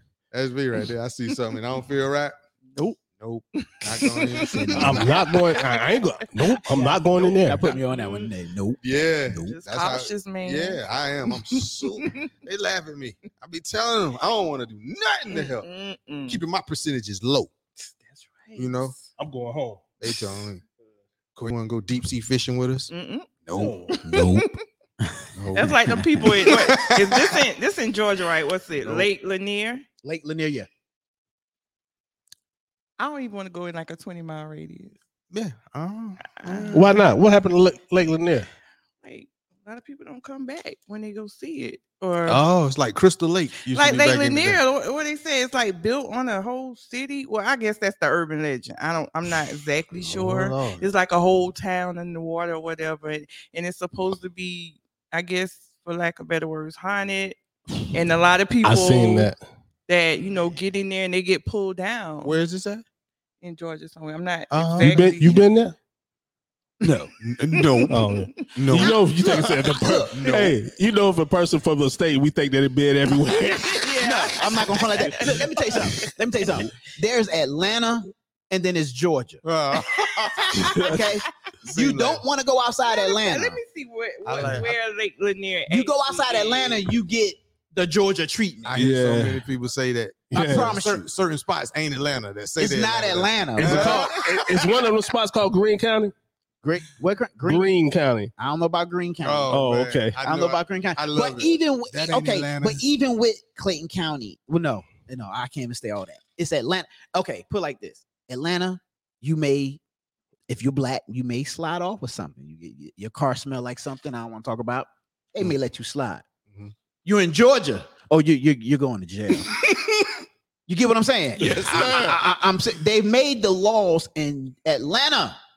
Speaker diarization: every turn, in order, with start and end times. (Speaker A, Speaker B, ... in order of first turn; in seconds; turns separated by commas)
Speaker A: 0.3-5.3, Speaker B: 3.7-6.0, Speaker C: 4.7-7.7, Speaker B: 6.7-8.3, Speaker D: 7.2-9.6, Speaker A: 8.8-15.7, Speaker B: 8.9-12.3, Speaker B: 15.3-16.4, Speaker A: 16.3-17.5, Speaker B: 18.1-19.1, Speaker A: 18.6-18.9, Speaker C: 19.2-19.8, Speaker A: 20.0-20.6, Speaker A: 21.4-22.9, Speaker B: 22.9-24.6, Speaker A: 23.4-23.8, Speaker C: 23.5-23.9, Speaker D: 24.0-24.5, Speaker D: 25.0-26.4, Speaker A: 25.4-27.4, Speaker B: 25.5-29.9, Speaker A: 28.8-29.1, Speaker D: 30.0-30.7, Speaker B: 33.0-35.0, Speaker A: 35.3-37.0, Speaker B: 36.2-36.9, Speaker C: 36.7-38.5, Speaker B: 39.0-42.4, Speaker A: 42.3-44.6, Speaker B: 43.7-57.4, Speaker A: 49.9-50.9, Speaker B: 57.9-59.3, Speaker C: 58.6-59.4, Speaker B: 59.9-62.4, Speaker A: 62.2-62.9, Speaker B: 63.4-65.5, Speaker A: 64.5-65.1, Speaker C: 64.8-65.7, Speaker D: 66.8-67.1, Speaker A: 67.2-69.0, Speaker B: 67.7-68.2, Speaker C: 67.9-73.9, Speaker D: 68.8-70.5, Speaker A: 70.1-70.5, Speaker B: 73.6-75.8, Speaker D: 74.0-79.4, Speaker A: 79.4-81.0, Speaker C: 80.6-81.0, Speaker D: 80.7-83.6, Speaker A: 81.6-82.2, Speaker B: 82.9-86.9, Speaker A: 84.2-84.7, Speaker D: 85.7-88.8, Speaker A: 88.6-94.8, Speaker C: 88.8-89.4, Speaker C: 90.3-90.8, Speaker D: 90.3-91.0, Speaker D: 92.6-94.2, Speaker C: 93.6-96.1, Speaker D: 96.6-97.7, Speaker C: 97.5-98.3, Speaker D: 98.4-99.5, Speaker A: 99.2-102.8, Speaker C: 99.5-100.2, Speaker D: 100.2-109.8, Speaker D: 110.5-116.2, Speaker D: 117.0-119.5, Speaker D: 120.7-125.4, Speaker A: 121.4-122.2